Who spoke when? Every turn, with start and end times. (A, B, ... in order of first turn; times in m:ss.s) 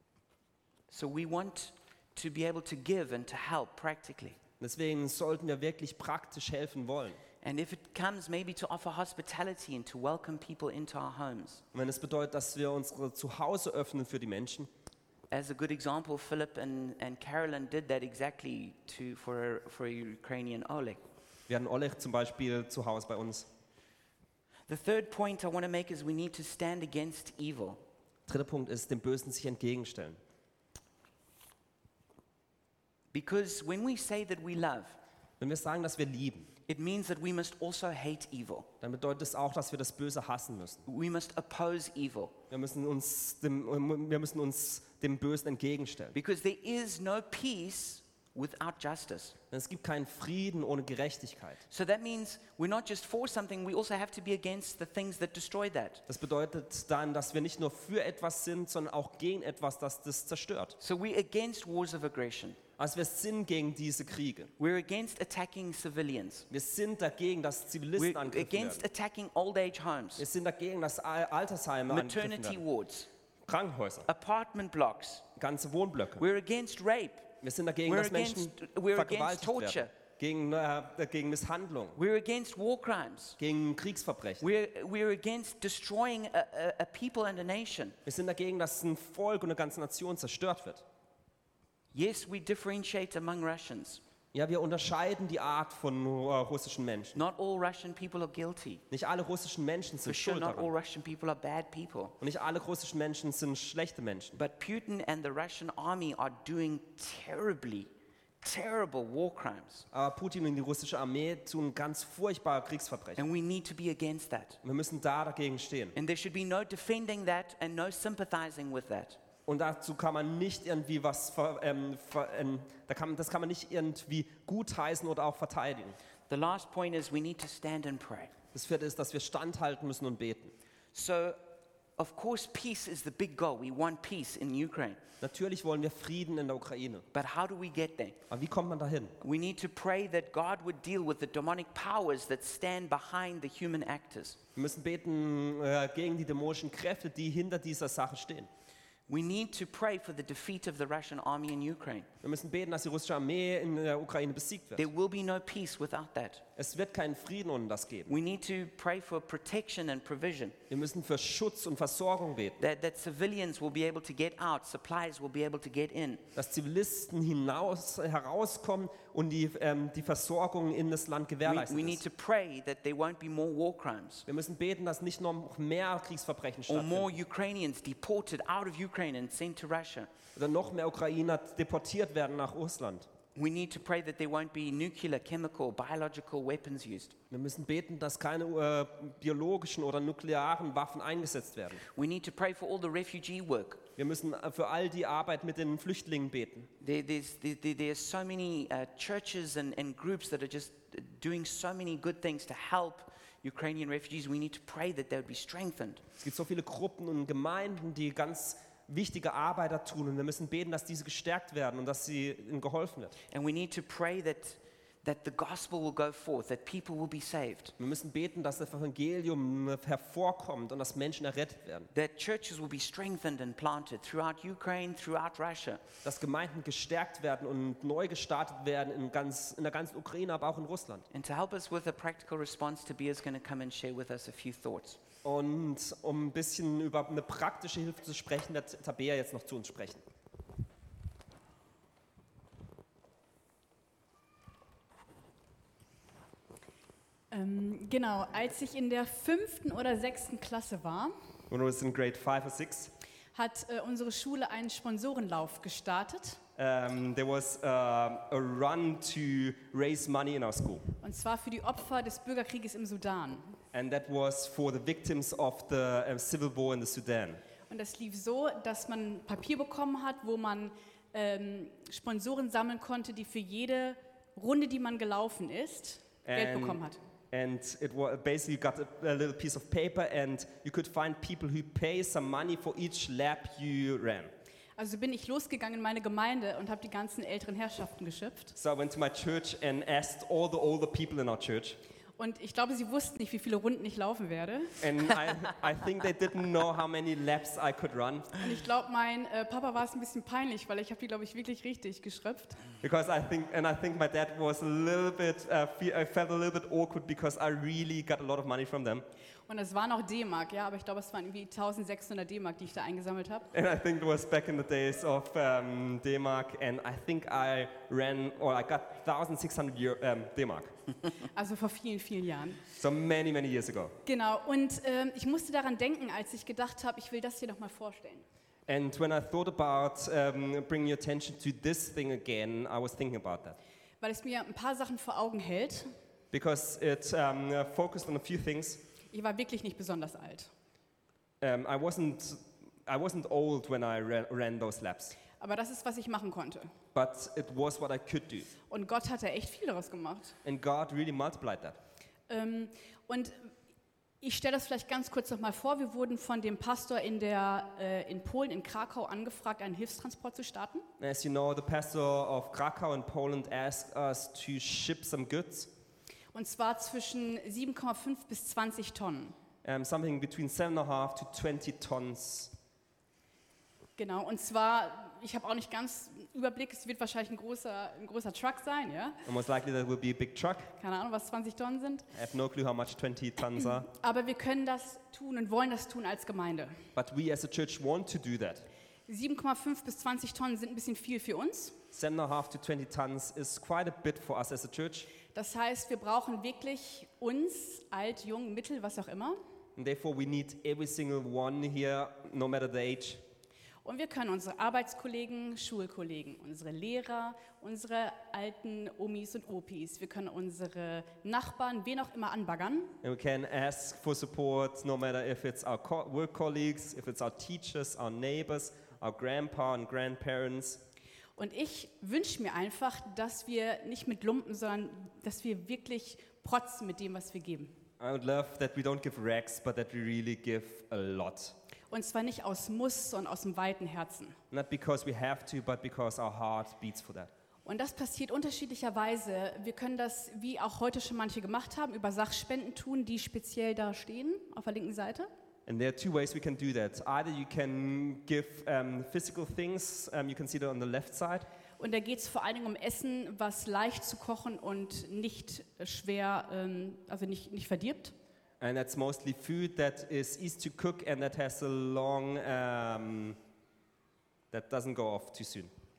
0:00.9-0:04.4 A
0:04.6-0:07.2 B
0:07.4-0:11.6 A
0:11.7-0:14.7 B
0:15.3-0:21.0 A
0:21.5-0:23.5 B
0:24.7-0:27.8 A
0:28.3-0:30.2 B
0:33.1-0:35.0 A
0:35.4-0:36.5 B
0:36.7-0:38.7 A
0:38.8-0:40.8 B
0:40.8-0:42.4 A
0:42.5-0:46.1 B
0:46.1-0:49.4 A
0:49.5-0:51.6 B
0:51.7-0:56.0 A
0:56.1-1:00.8 B
1:00.8-1:02.6 A
1:02.8-1:04.5 B
1:04.6-1:06.5 A
1:06.5-1:08.8 B
1:08.0-1:10.2 A
1:10.2-1:12.6 B
1:11.9-1:13.1 A
1:13.4-1:14.1 B
1:14.0-1:15.2 A
1:15.4-1:16.3 B
1:16.2-1:17.3 A
1:17.4-1:22.0 B
1:17.8-1:19.9 A
1:21.9-1:23.4 A
1:23.4-1:24.4 B
1:24.4-1:28.0 A
1:28.0-1:30.8 B
1:31.9-1:34.0 A
1:34.3-1:37.2 B
1:37.1-1:38.8 A
1:38.9-1:40.7 B
1:40.0-1:42.1 A
1:42.2-1:44.4 B
1:44.3-1:47.9 A
1:48.4-1:49.8 A
1:49.9-1:53.2 B
1:53.2-1:54.6 A
1:54.6-1:56.0 B
1:55.9-1:59.2 A
1:59.4-2:06.0 B
2:06.3-2:08.3 A
2:08.5-2:10.5 B
2:10.9-2:11.4 A
2:12.0-2:15.0 A
2:15.2-2:17.0 B
2:17.1-2:18.2 A
2:18.3-2:19.1 B
2:19.2-2:24.4 A
2:24.6-2:28.5 B
2:29.1-2:32.1 A
2:32.2-2:34.9 B
2:34.8-2:36.4 A
2:36.6-2:38.2 B
2:38.1-2:40.6 A
2:40.7-2:42.6 B
2:42.6-2:46.2 A
2:46.3-2:52.0 B
2:51.4-2:54.2 A
2:54.3-2:57.2 B
2:56.7-3:00.1 A
3:00.3-3:03.1 B
3:03.3-3:07.1 A
3:07.3-3:11.8 B
3:11.8-3:13.8 A
3:14.0-3:16.7 B
3:16.8-3:26.0 A
3:26.2-3:33.1 B
3:33.3-3:37.7 A
3:37.8-3:41.9 B
3:41.9-3:45.8 A
3:46.0-3:51.0 B
3:51.1-3:55.0 A
3:55.2-4:00.0 B
4:07.3-4:11.1 C
4:11.5-4:12.9 B
4:13.3-4:16.4 C
4:16.6-4:20.8 B
4:21.0-4:23.6 C
4:23.7-4:27.4 B
4:27.7-4:37.0 C
4:36.2-4:44.3 B
4:44.8-4:48.5 C
4:48.6-4:51.8 B
4:52.2-4:54.9 C
4:54.8-4:58.3 B
4:58.4-5:02.6 C
5:02.8-5:09.0 B
5:09.5-5:13.5 C
5:13.5-5:20.7 B
5:21.3-5:22.6 C
5:22.7-5:24.0 B
5:24.0-5:28.2 C
5:28.7-5:33.6 B
5:34.0-5:35.9 C
5:36.3-5:38.8 B
5:39.1-5:40.5 C
5:41.4-5:45.2 B
5:45.4-5:46.7 C
5:46.9-5:48.5 B
5:48.7-5:50.3 C
5:50.4-5:51.8 B
5:52.3-5:53.4 C
5:54.2-6:00.8 C
6:01.0-6:05.7 B
6:06.3-6:09.3 C
6:09.6-6:12.5 B
6:14.0-6:19.2 C
6:19.2-6:20.7 B
6:20.8-6:22.1 C
6:22.1-6:23.9 B
6:23.9-6:26.7 C
6:26.9-6:28.6 B
6:29.1-6:31.8 C
6:31.9-6:35.1 B
6:35.3-6:39.4 C
6:39.8-6:43.2 B
6:43.8-6:52.9 C
6:53.0-7:00.8 B
7:01.4-7:07.7 C
7:08.0-7:11.5 B
7:11.9-7:14.4 C
7:14.5-7:17.3 B
7:17.6-7:25.3 C
7:25.7-7:31.4 B
7:31.8-7:38.1 C
7:38.6-7:43.4 B
7:44.5-7:45.7 B